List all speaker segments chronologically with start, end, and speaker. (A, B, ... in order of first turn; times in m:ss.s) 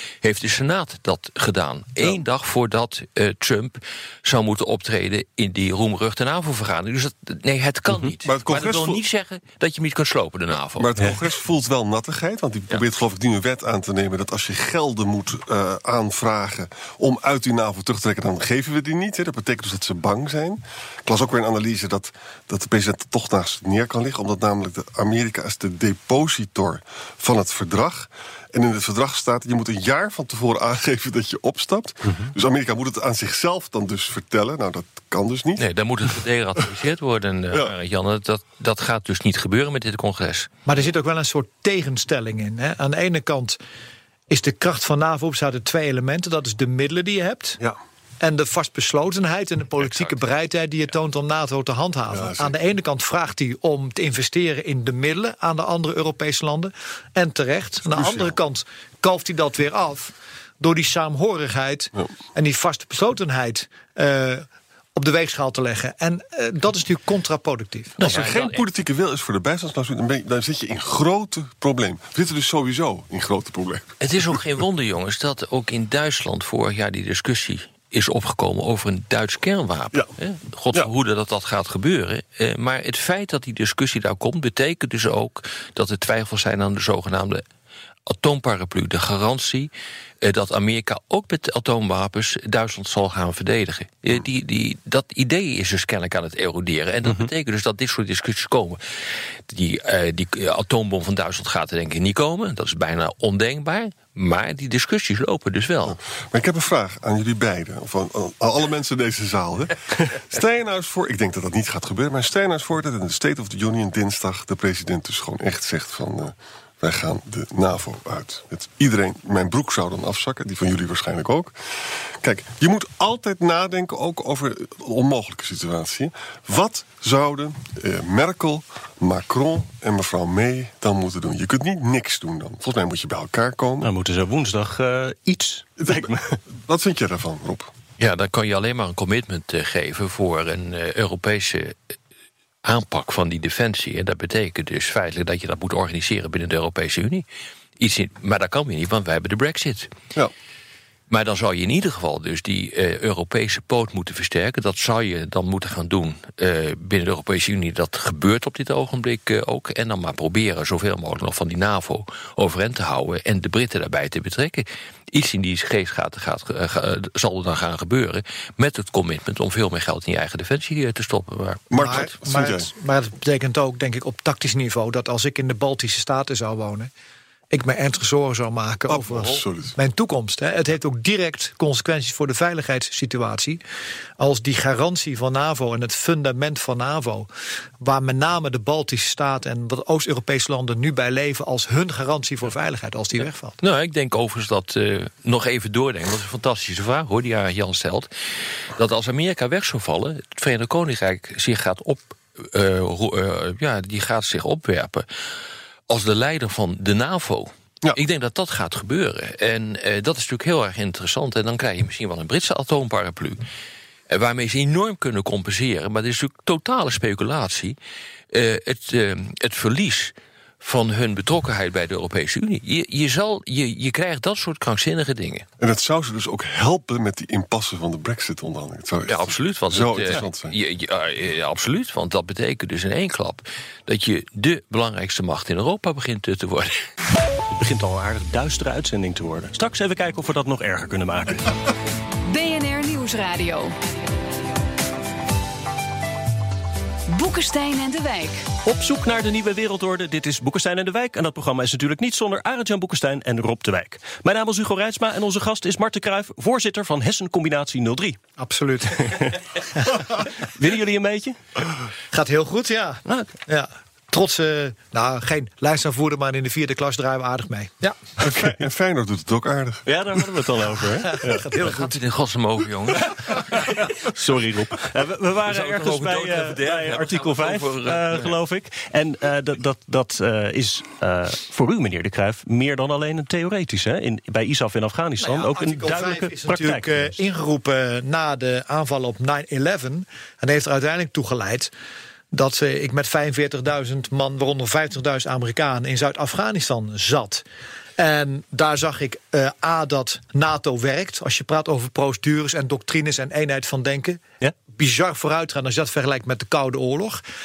0:00.2-0:10.9 A
0:08.2-0:09.0 B
0:10.8-0:35.6 B
0:35.6-0:40.5 A
0:40.7-0:43.6 C
0:44.3-0:47.6 C
0:48.2-1:08.0 C
0:49.8-0:50.2 A
0:52.1-0:52.6 B
0:57.8-0:58.4 B
1:08.0-1:08.6 A
1:08.0-1:14.0 B
1:14.0-1:27.4 A
1:28.1-1:29.7 A
1:30.2-1:38.8 A
1:39.5-1:46.0 A
1:45.8-2:01.5 B
2:02.2-2:13.9 B
2:13.8-2:16.4 D
2:15.8-2:16.1 B
2:16.7-2:17.7 B
2:18.0-2:21.8 A
2:22.6-2:27.2 A
2:27.8-2:29.9 A
2:31.1-2:52.0 A
2:51.7-2:52.7 B
2:51.8-2:56.9 C
2:57.5-3:03.6 C
2:58.9-2:59.8 B
3:04.2-3:07.3 C
3:07.8-3:13.6 C
3:13.6-3:18.1 A
3:18.8-3:25.1 A
3:25.9-3:33.4 A
3:34.1-3:37.8 A
3:38.3-3:45.5 A
3:45.6-3:50.6 B
3:49.1-3:56.7 A
3:57.5-4:01.6 D
4:02.3-4:03.7 E
4:07.1-4:08.4 E
4:08.6-4:18.2 D
4:18.4-4:19.3 C
4:19.1-4:19.4 D
4:20.5-4:21.4 D
4:22.1-4:28.0 C
4:28.2-4:30.5 B
4:29.9-4:31.4 D
4:31.2-4:32.0 C
4:31.6-4:33.5 A
4:34.1-4:47.2 D
4:35.5-4:38.4 A
4:45.2-4:51.7 C
4:52.3-4:57.4 C
4:58.0-5:04.2 C
5:04.8-5:07.2 C